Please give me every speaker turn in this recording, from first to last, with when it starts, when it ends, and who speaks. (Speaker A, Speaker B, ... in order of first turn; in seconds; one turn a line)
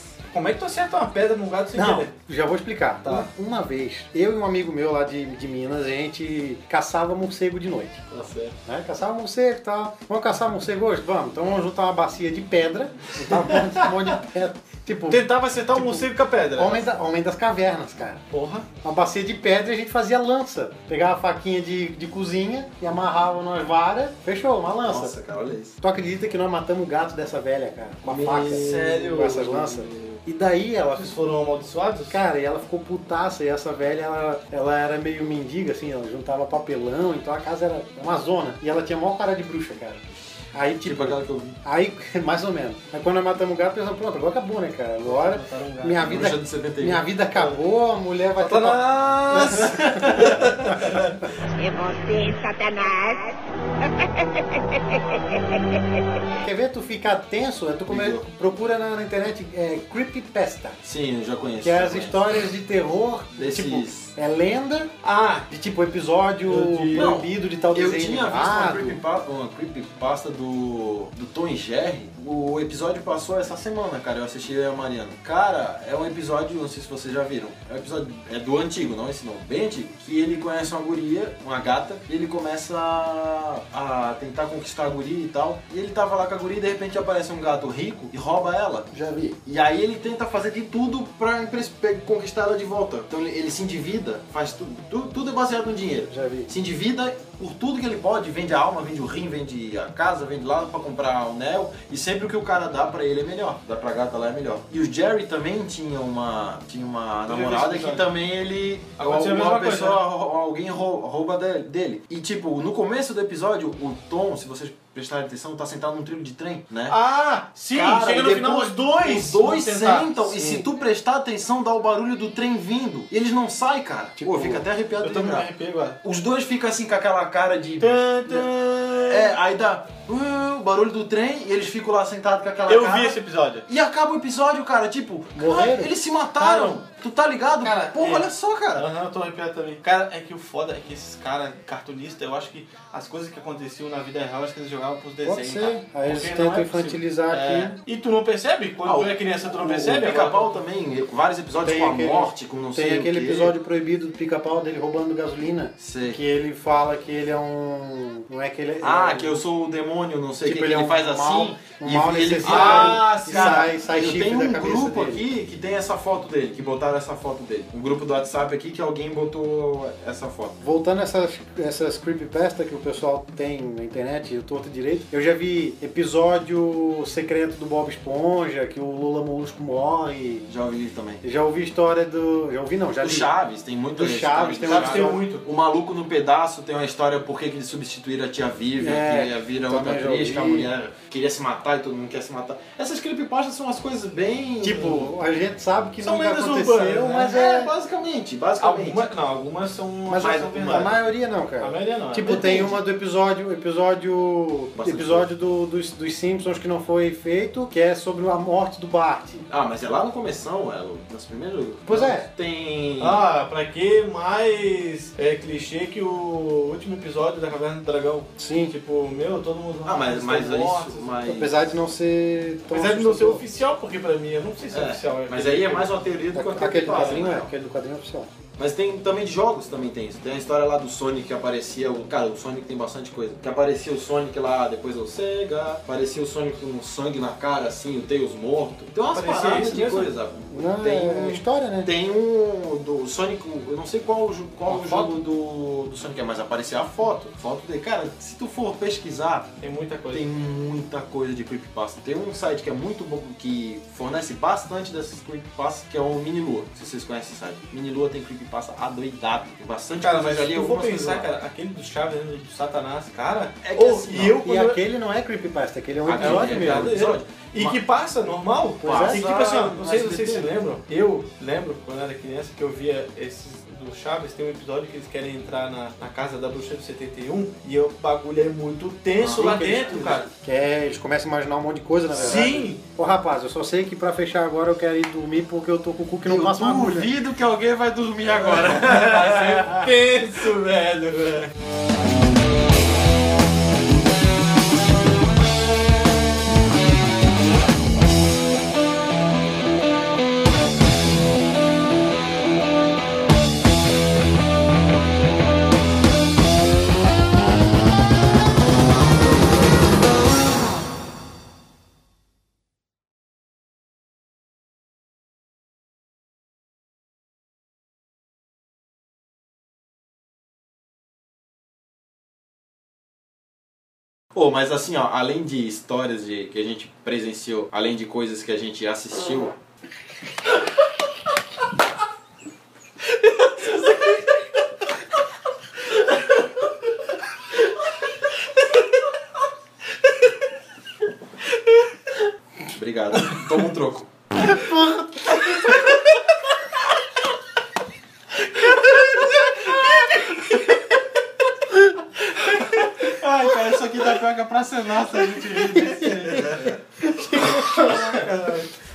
Speaker A: 0.3-2.1
Speaker B: 1.7-8.0
Speaker A: 8.1-8.5
Speaker B: 8.7-18.2
Speaker A: 13.3-13.9
Speaker A: 15.1-16.9
Speaker A: 18.3-18.6
Speaker B: 18.8-25.1
Speaker C: 24.9-25.8
Speaker B: 25.8-31.1
Speaker C: 28.0-30.1
Speaker A: 28.2-29.6
Speaker A: 30.9-32.2
Speaker B: 32.1-50.8
Speaker C: 40.8-41.5
Speaker A: 45.0-46.3
Speaker C: 46.0-47.1
Speaker A: 48.4-51.2
Speaker D: 51.6-56.4
Speaker B: 56.4-60.8
Speaker C: 57.9-58.3
Speaker C: 60.8-62.3
Speaker B: 61.6-64.9
Speaker C: 63.4-64.1
Speaker A: 65.0-65.5
Speaker B: 65.5-69.0
Speaker A: 66.5-67.1
Speaker C: 66.9-117.0
Speaker B: 88.9-89.4
Speaker B: 96.1-96.5
Speaker A: 107.3-108.1
Speaker A: 109.0-110.0
Speaker A: 116.9-120.3
Speaker C: 117.7-125.5
Speaker B: 120.3-120.6
Speaker B: 124.2-124.6
Speaker A: 125.0-126.0
Speaker C: 126.0-138.9
Speaker A: 127.8-129.3
Speaker A: 132.7-133.7
Speaker B: 135.3-135.9
Speaker A: 136.4-136.8
Speaker A: 137.6-150.5
Speaker B: 145.2-147.8
Speaker C: 148.8-153.5
Speaker B: 151.6-159.4
Speaker C: 155.8-156.2
Speaker C: 158.8-170.6
Speaker B: 160.4-165.2
Speaker A: 162.4-163.7
Speaker B: 170.6-180.5
Speaker C: 180.5-181.2
Speaker B: 181.2-183.3
Speaker C: 183.0-195.1
Speaker B: 183.9-185.2
Speaker A: 184.6-185.4
Speaker B: 188.8-190.7
Speaker B: 194.6-197.7
Speaker A: 196.0-197.1
Speaker C: 197.1-199.1
Speaker A: 198.6-201.0
Speaker B: 200.1-209.4
Speaker A: 201.6-202.7
Speaker C: 202.3-202.7
Speaker C: 204.7-205.3
Speaker C: 209.5-213.2
Speaker B: 211.8-212.3
Speaker A: 213.0-221.1
Speaker B: 218.4-218.7
Speaker C: 219.8-221.6
Speaker B: 221.2-223.4
Speaker A: 222.7-226.0
Speaker C: 224.7-227.5
Speaker B: 226.3-228.3
Speaker A: 226.9-227.3
Speaker C: 228.6-249.6
Speaker A: 239.1-240.1
Speaker B: 240.5-241.9
Speaker A: 244.7-245.1
Speaker A: 249.6-250.2
Speaker C: 250.1-261.3
Speaker A: 259.9-264.8
Speaker C: 263.6-264.4
Speaker B: 264.2-267.0
Speaker C: 266.0-267.8
Speaker A: 266.1-280.3
Speaker B: 268.8-269.2
Speaker C: 268.8-270.5
Speaker C: 279.2-280.2
Speaker B: 279.2-287.1
Speaker A: 282.1-282.8
Speaker C: 286.2-289.9
Speaker A: 288.5-291.5
Speaker C: 324.3-329.5
Speaker A: 333.4-334.4
Speaker C: 342.7-344.1
Speaker B: 344.4-345.5
Speaker C: 352.5-356.7
Speaker A: 355.6-356.7
Speaker B: 357.0-358.5
Speaker A: 357.4-358.6